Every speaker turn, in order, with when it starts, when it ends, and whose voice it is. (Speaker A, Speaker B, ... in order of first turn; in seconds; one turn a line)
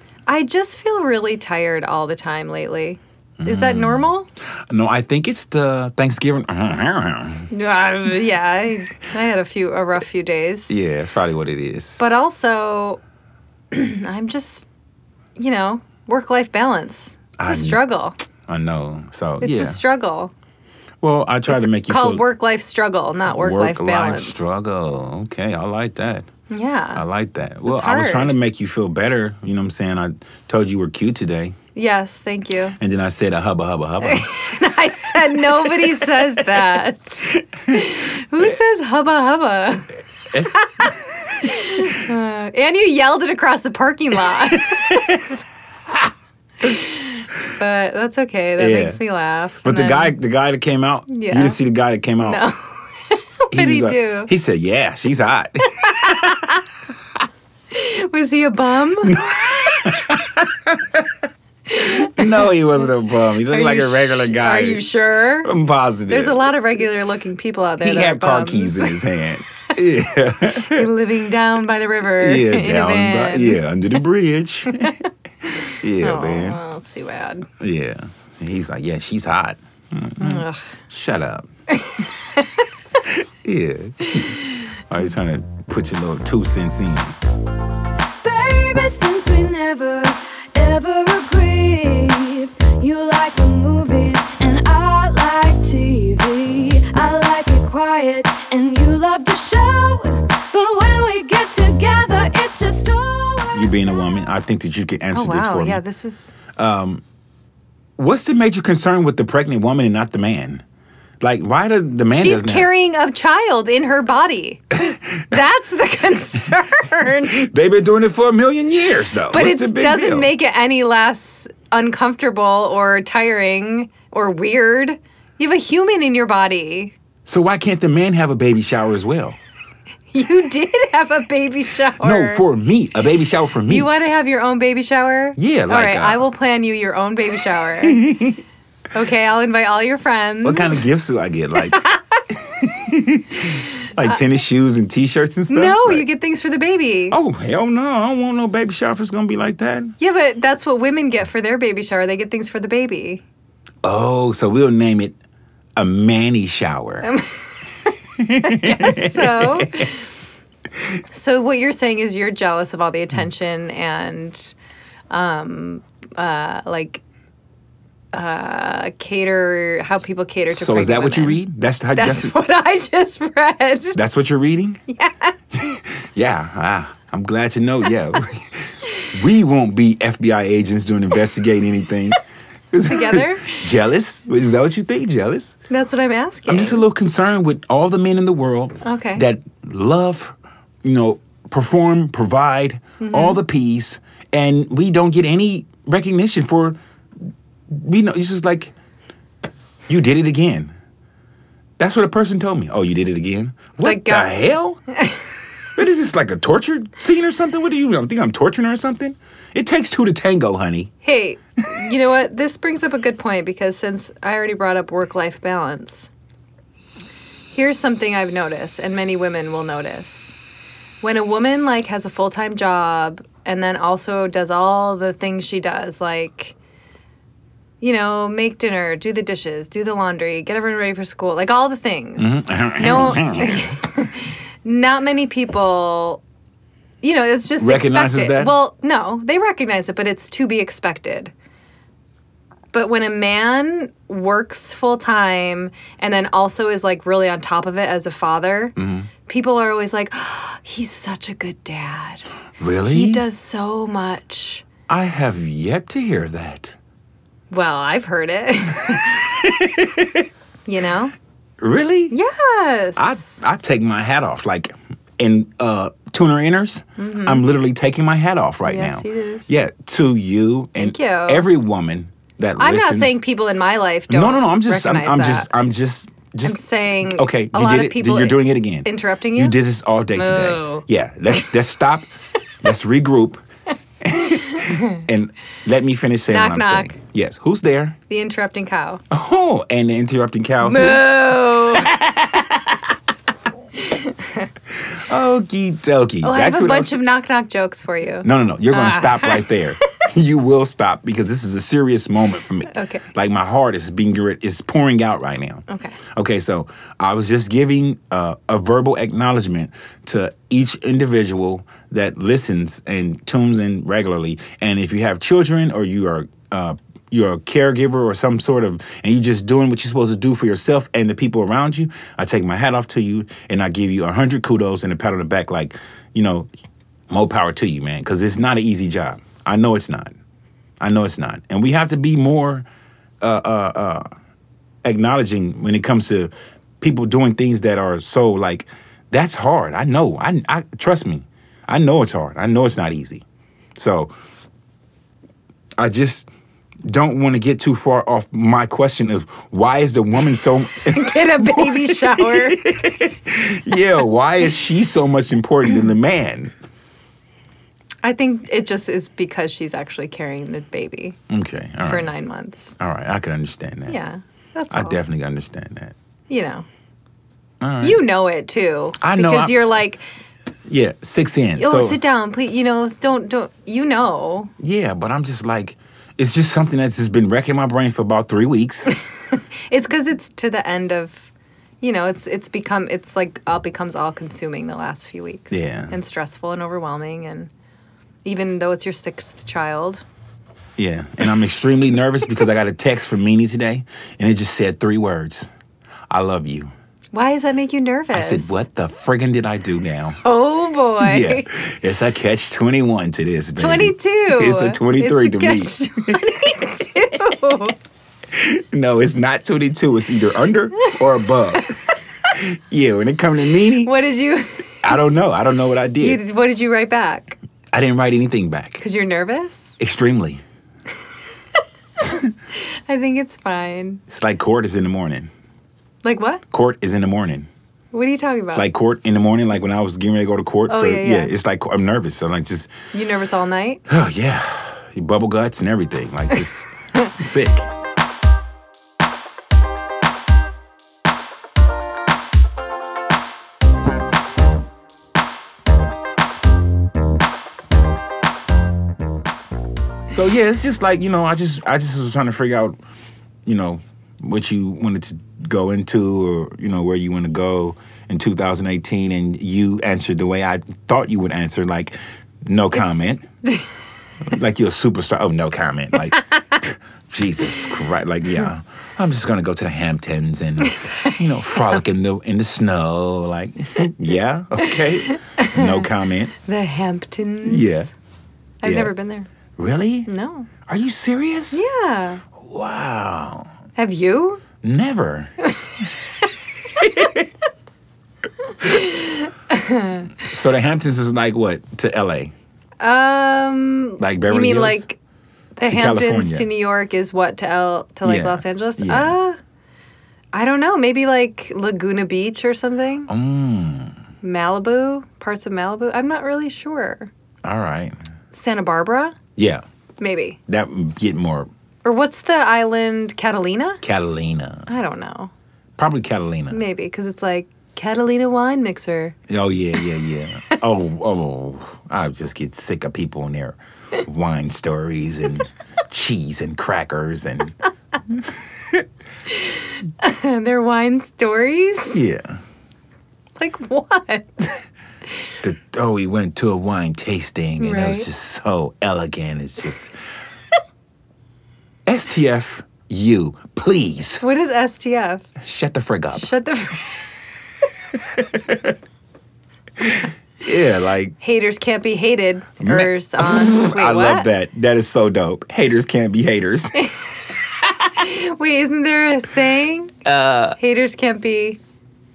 Speaker A: 0.3-4.3
Speaker B: 3.4-4.1
Speaker B: 4.7-7.5
Speaker A: 7.5-10.8
Speaker B: 10.7-12.0
Speaker A: 12.0-13.0
Speaker A: 13.7-14.7
Speaker A: 15.4-18.2
Speaker B: 17.4-17.8
Speaker B: 18.5-19.8
Speaker A: 19.4-20.3
Speaker B: 21.0-22.2
Speaker A: 21.5-24.6
Speaker B: 23.3-26.3
Speaker A: 26.5-27.0
Speaker B: 26.9-31.6
Speaker A: 27.7-28.3
Speaker A: 31.8-32.8
Speaker B: 32.8-34.3
Speaker A: 34.0-45.4
Speaker B: 40.3-40.6
Speaker B: 44.3-45.3
Speaker A: 46.6-50.1
Speaker B: 48.6-49.0
Speaker B: 49.6-52.4
Speaker A: 51.1-51.6
Speaker A: 52.2-54.3
Speaker B: 53.5-56.4
Speaker A: 55.8-56.6
Speaker A: 57.7-60.2
Speaker B: 59.0-61.2
Speaker A: 61.7-62.5
Speaker B: 61.9-64.8
Speaker A: 63.5-65.5
Speaker B: 65.4-66.5
Speaker A: 66.1-69.0
Speaker B: 67.8-70.9
Speaker A: 70.6-73.6
Speaker B: 72.2-75.0
Speaker A: 74.7-75.0
Speaker A: 75.5-77.5
Speaker B: 75.6-76.6
Speaker B: 77.6-81.5
Speaker A: 80.2-80.7
Speaker A: 81.8-82.7
Speaker B: 83.0-87.2
Speaker C: 88.2-103.9
Speaker B: 103.5-105.8
Speaker A: 105.1-106.4
Speaker B: 106.5-107.0
Speaker B: 108.0-110.6
Speaker B: 111.2-112.7
Speaker A: 112.1-117.5
Speaker B: 114.8-115.4
Speaker B: 117.1-120.3
Speaker A: 119.3-127.0
Speaker B: 127.2-129.4
Speaker A: 130.1-132.4
Speaker B: 132.0-133.9
Speaker A: 133.7-138.0
Speaker B: 135.4-136.2
Speaker B: 137.8-138.4
Speaker A: 138.9-140.9
Speaker B: 140.4-141.8
Speaker A: 141.6-142.2
Speaker B: 142.3-146.1
Speaker A: 145.5-147.2
Speaker B: 147.1-149.9
Speaker A: 150.0-153.2
Speaker B: 153.8-155.2
Speaker B: 155.8-157.1
Speaker A: 157.0-160.1
Speaker B: 158.2-159.9
Speaker A: 161.1-164.6
Speaker A: 165.1-167.0
Speaker A: 168.1-171.4
Speaker B: 170.5-172.4
Speaker A: 171.9-174.0
Speaker B: 173.9-174.8
Speaker A: 174.9-175.8
Speaker B: 175.6-182.2
Speaker B: 182.7-185.6
Speaker A: 182.9-183.6
Speaker A: 185.7-186.8
Speaker B: 186.5-196.8
Speaker A: 188.8-189.2
Speaker A: 193.0-193.4
Speaker B: 197.7-198.7
Speaker B: 199.9-200.7
Speaker B: 201.8-204.8
Speaker A: 203.8-204.4
Speaker B: 205.8-210.9
Speaker A: 211.0-216.1
Speaker A: 217.5-220.3
Speaker A: 221.0-226.5
Speaker A: 227.8-236.2
Speaker B: 232.2-233.7
Speaker A: 237.0-241.3
Speaker B: 237.6-238.6
Speaker A: 242.7-252.3
Speaker B: 248.8-249.1
Speaker B: 252.6-253.2
Speaker A: 252.9-254.7
Speaker B: 254.9-256.8
Speaker A: 257.5-259.4
Speaker B: 259.4-260.3
Speaker A: 260.7-261.1
Speaker B: 261.6-262.1
Speaker A: 262.1-263.4
Speaker B: 263.0-273.2
Speaker A: 267.0-267.4
Speaker A: 268.7-269.5
Speaker A: 270.8-271.4
Speaker A: 272.6-275.5
Speaker B: 274.1-282.1
Speaker A: 276.4-279.6
Speaker A: 280.1-280.9
Speaker B: 282.6-283.4
Speaker B: 284.0-288.0
Speaker A: 284.5-285.0
Speaker A: 286.3-286.9
Speaker A: 288.1-289.0
Speaker B: 289.1-291.1
Speaker A: 290.6-292.4
Speaker B: 291.8-292.4
Speaker A: 293.8-294.5
Speaker B: 294.9-297.0
Speaker A: 296.2-299.5
Speaker B: 298.2-326.5
Speaker A: 302.7-303.1
Speaker A: 305.7-306.0
Speaker B: 327.1-330.1
Speaker B: 330.8-332.7
Speaker B: 333.2-334.1
Speaker B: 334.8-343.2
Speaker B: 343.8-344.1
Speaker B: 345.8-346.3
Speaker B: 346.8-356.5
Speaker A: 350.9-352.7
Speaker A: 358.0-361.2
Speaker B: 361.3-362.1
Speaker A: 361.9-362.8
Speaker B: 362.8-364.0
Speaker A: 363.9-365.0
Speaker B: 364.7-365.9
Speaker A: 366.3-366.6
Speaker B: 367.6-368.0
Speaker A: 367.8-370.0
Speaker B: 369.0-369.6
Speaker B: 370.7-372.0
Speaker A: 371.6-374.5
Speaker B: 374.6-378.9
Speaker A: 379.3-387.5
Speaker B: 385.5-386.0
Speaker A: 388.2-390.0
Speaker B: 390.8-395.5
Speaker B: 396.1-396.7
Speaker A: 397.1-398.7
Speaker B: 398.1-400.2
Speaker A: 400.2-401.5
Speaker B: 401.0-406.3
Speaker A: 403.6-407.8
Speaker B: 408.3-411.8
Speaker B: 412.3-413.9
Speaker A: 413.8-415.0
Speaker B: 414.8-416.2
Speaker A: 416.0-417.4
Speaker B: 417.7-418.8
Speaker A: 418.8-419.8
Speaker B: 419.8-420.4
Speaker A: 422.6-424.0
Speaker B: 424.1-425.3
Speaker A: 426.0-426.4
Speaker B: 426.5-427.5
Speaker A: 427.9-428.7
Speaker B: 428.6-432.8
Speaker A: 430.7-431.3
Speaker A: 432.9-433.8
Speaker B: 433.9-437.7
Speaker B: 450.1-452.8
Speaker B: 453.5-463.3
Speaker B: 464.2-476.3
Speaker A: 470.6-471.8
Speaker A: 475.0-475.9
Speaker A: 476.4-477.9
Speaker B: 477.4-477.9
Speaker A: 478.6-479.3
Speaker B: 478.6-478.9
Speaker B: 479.6-480.1
Speaker A: 480.1-480.5
Speaker B: 480.6-481.6
Speaker A: 481.5-482.2
Speaker B: 482.4-483.5
Speaker A: 483.8-484.4
Speaker B: 484.6-485.3
Speaker A: 485.5-485.8
Speaker B: 486.8-487.3
Speaker A: 488.6-490.1
Speaker B: 490.2-492.3
Speaker A: 492.8-495.0
Speaker B: 494.0-494.8
Speaker A: 495.6-499.4
Speaker B: 495.7-496.5
Speaker B: 498.0-499.2
Speaker A: 500.3-503.1
Speaker B: 503.1-504.0
Speaker A: 504.2-507.1
Speaker B: 507.4-508.0
Speaker A: 508.3-509.2
Speaker B: 509.4-509.6
Speaker A: 510.0-510.4
Speaker B: 510.5-511.5
Speaker A: 511.9-513.8
Speaker B: 513.8-514.7
Speaker A: 514.7-515.3
Speaker B: 515.8-516.6
Speaker A: 516.5-519.2
Speaker B: 519.3-527.5
Speaker B: 528.1-528.9
Speaker A: 529.3-532.0
Speaker B: 531.9-532.4
Speaker A: 533.4-534.6
Speaker B: 535.4-540.0
Speaker A: 537.6-538.1
Speaker B: 541.9-544.2
Speaker A: 544.2-545.3
Speaker B: 545.4-546.3
Speaker A: 546.1-547.3
Speaker B: 548.1-548.8
Speaker B: 549.8-551.2
Speaker A: 551.2-554.3
Speaker B: 552.6-556.8
Speaker A: 556.8-557.0
Speaker A: 557.7-560.0
Speaker B: 560.1-560.6
Speaker A: 560.6-561.6